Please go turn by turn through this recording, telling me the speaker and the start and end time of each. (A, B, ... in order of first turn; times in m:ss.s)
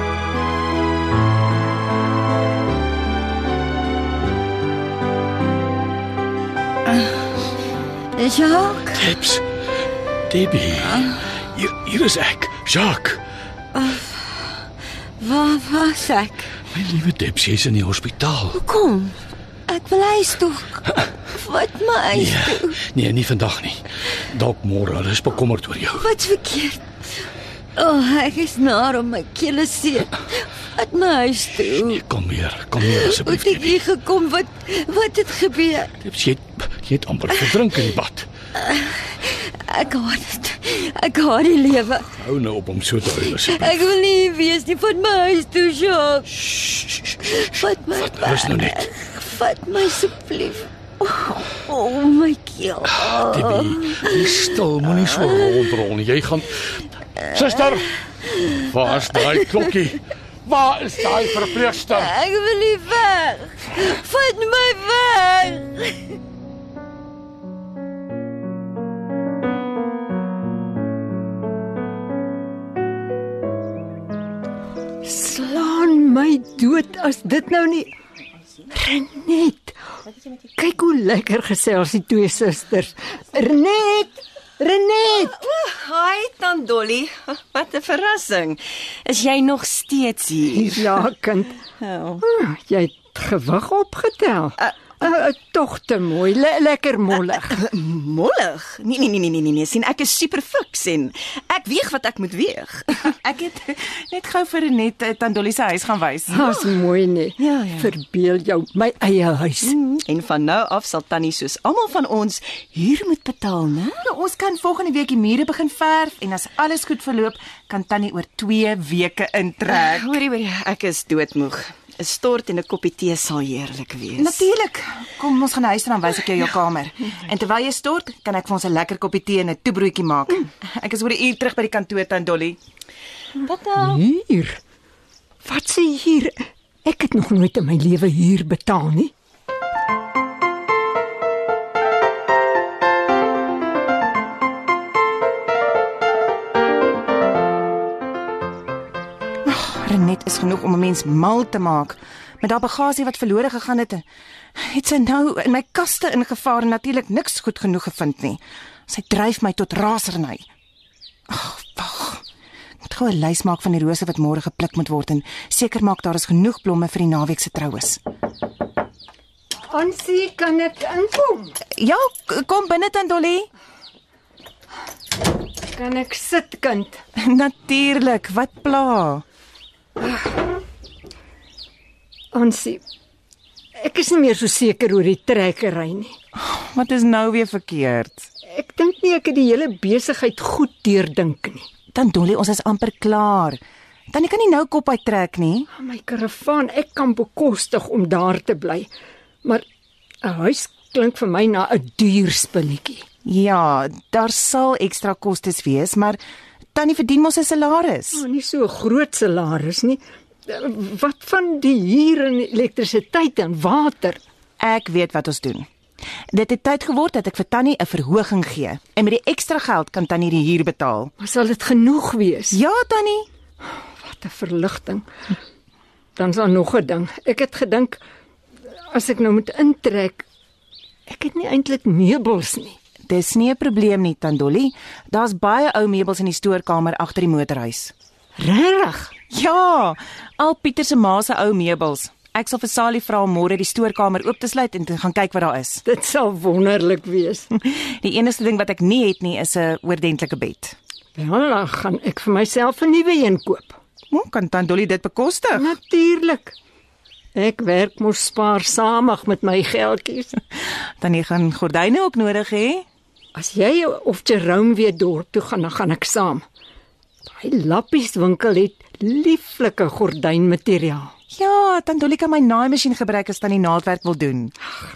0:08.2-0:09.1 A
0:08.9-0:09.4 B
0:10.3-0:13.2 B
0:10.8-0:11.2 A
0:13.7-0:14.5 A
0:15.2-0:16.5 A
0:16.7-0:18.6 B
0:18.5-0:19.2 A
0:19.7-0:20.8 A
0:21.3-0:22.8 A
0:22.1-0:26.1 B
0:26.0-0:26.9 A
0:27.8-0:32.0 A
0:31.6-0:33.9 B
0:32.8-0:35.9 A
0:36.0-0:38.3 B
0:37.3-0:37.9 A
0:38.6-0:42.1 A
0:42.2-0:44.0 B
0:43.3-0:46.5 A
0:46.4-0:48.9 B
0:47.2-0:55.8 A
0:53.1-0:57.9 B
0:57.3-0:59.7 A
0:58.6-1:02.2 B
1:01.2-1:06.0 A
1:15.0-1:17.9 C
1:18.7-1:19.8 C
1:20.6-1:25.4 C
1:25.2-1:31.0 D
1:30.5-1:31.6 C
1:31.8-1:32.2 D
1:32.2-1:37.6 C
1:37.5-1:43.1 D
1:43.1-1:46.4 E
1:46.3-1:49.8 C
1:46.4-1:46.7 D
1:47.4-1:47.9 D
1:49.6-1:54.0 D
1:54.0-2:00.1 E
1:59.7-2:04.5 D
2:04.2-2:12.6 E
2:13.4-2:14.0 D
2:13.8-2:14.6 C
2:15.4-2:19.1 C
2:29.5-2:34.0 E
2:34.6-2:40.4 E
2:41.3-2:42.2 E
2:42.8-2:48.0 E
2:49.7-2:51.6 C
2:51.8-2:53.5 E
2:55.7-2:57.0 C
2:57.2-2:59.2 E
3:02.3-3:02.8 C
3:03.8-3:06.2 C
3:06.4-3:08.3 E
3:08.5-3:11.7 C
3:11.9-3:13.6 E
3:14.1-3:15.7 E
3:15.7-3:18.9 C
3:20.2-3:23.0 C
3:23.2-3:26.2 E
3:26.8-3:28.2 E
3:28.1-3:34.2 C
3:34.6-3:35.7 E
3:36.3-3:41.1 E
3:41.2-3:42.6 C
3:42.5-3:43.3 E
3:44.0-3:45.0 C
3:46.2-3:48.0 C
3:48.9-3:50.2 C
3:51.1-3:52.8 C
3:53.1-3:57.9 E
3:58.4-3:59.1 C
3:59.3-4:05.8 E
4:05.8-4:07.5 C
4:07.6-4:10.8 E
4:11.2-4:13.8 C
4:14.1-4:15.7 E
4:15.5-4:16.6 C
4:17.4-4:20.4 C
4:21.0-4:22.8 E
4:23.4-4:26.4 C
4:27.3-4:31.1 C
4:31.3-4:34.5 E